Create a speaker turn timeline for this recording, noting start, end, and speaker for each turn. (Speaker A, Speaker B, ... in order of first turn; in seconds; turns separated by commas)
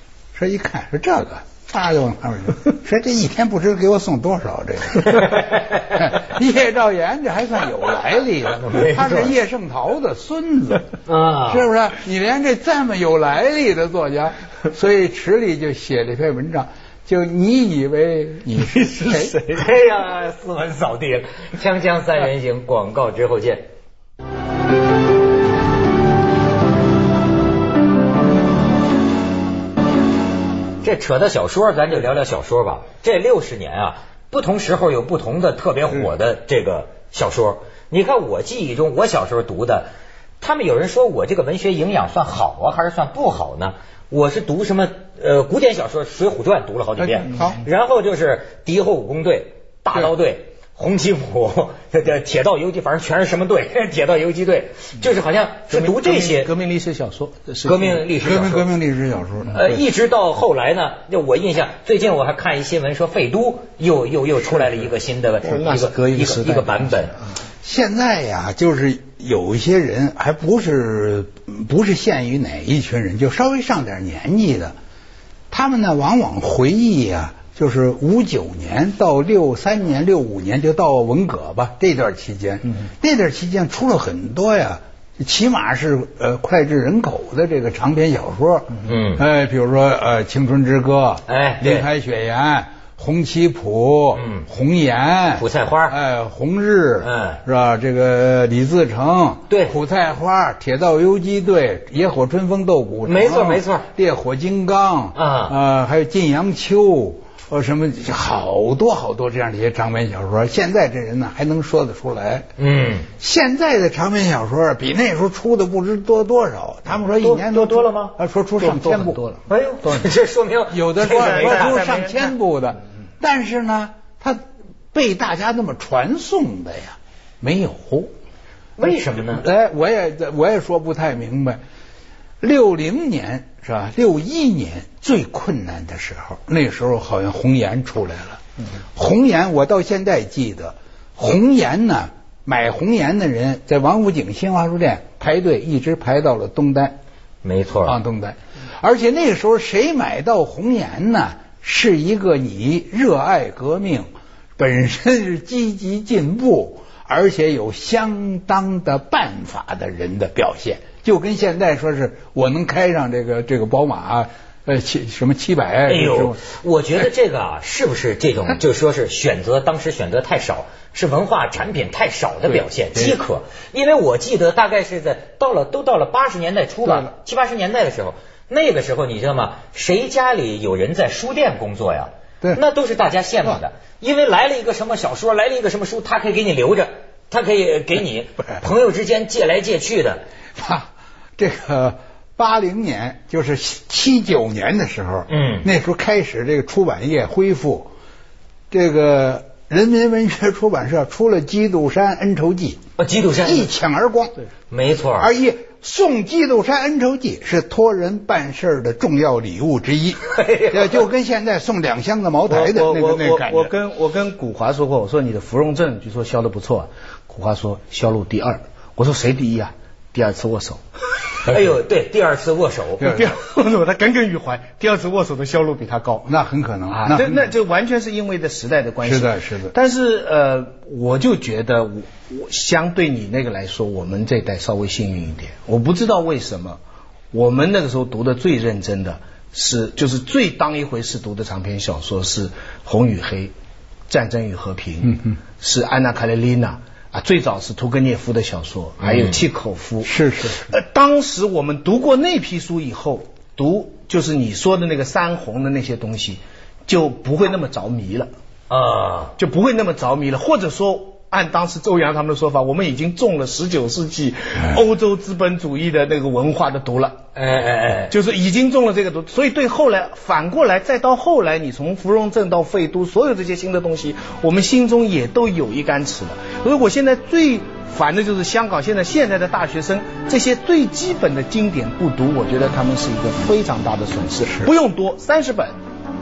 Speaker A: 0.3-10.9, Speaker B: 5.3-6.0, Speaker B: 8.6-9.3, Speaker B: 11.1-11.7, Speaker A: 11.5-19.4, Speaker B: 19.5-23.7, Speaker B: 30.8-39.9, Speaker B: 40.4-56.5, Speaker A: 47.0-47.6, Speaker C: 55.7-58.0, Speaker B: 57.6-58.7, Speaker A: 58.2-59.8, Speaker B: 59.5-67.2, Speaker C: 65.4-67.2, Speaker A: 67.6-74.7, Speaker A: 75.5-112.5, Speaker B: 88.8-89.2, Speaker B: 91.3-91.9, Speaker B: 94.1-94.5, Speaker B: 95.4-96.0, Speaker B: 97.0-97.4, Speaker B: 99.5-99.8, Speaker B: 103.0-103.8, Speaker B: 105.1-105.5, Speaker B: 112.6-113.1, Speaker A: 113.2-119.2, Speaker B: 117.2-118.2, Speaker C: 118.6-120.1, Speaker B: 119.5-121.8, Speaker A: 120.7-124.4, Speaker C: 121.0-122.3, Speaker A: 124.9-128.1, Speaker B: 128.8-129.5, Speaker A: 129.3-131.6, Speaker A: 132.4-138.4, Speaker A: 138.9-147.0, Speaker B: 147.4-148.0, Speaker A: 147.8-166.4, Speaker B: 165.8-190.2, Speaker A: 172.5-173.2, Speaker A: 190.6-197.9, Speaker B: 195.3-195.7, Speaker A: 198.7-202.8, Speaker B: 203.0-203.7, Speaker A: 203.4-204.3, Speaker B: 204.7-205.3, Speaker A: 205.2-213.7, Speaker B: 210.3-210.8, Speaker C: 212.5-220.8, Speaker B: 221.4-223.1, Speaker C: 223.0-226.3, Speaker A: 226.2-227.5, Speaker C: 226.9-236.8, Speaker A: 229.0-229.7, Speaker C: 237.3-243.5, Speaker C: 244.1-258.3, Speaker B: 249.0-249.4, Speaker A: 250.0-250.7, Speaker B: 258.7-259.3, Speaker C: 259.4-267.2, Speaker B: 267.4-268.1, Speaker C: 268.1-285.8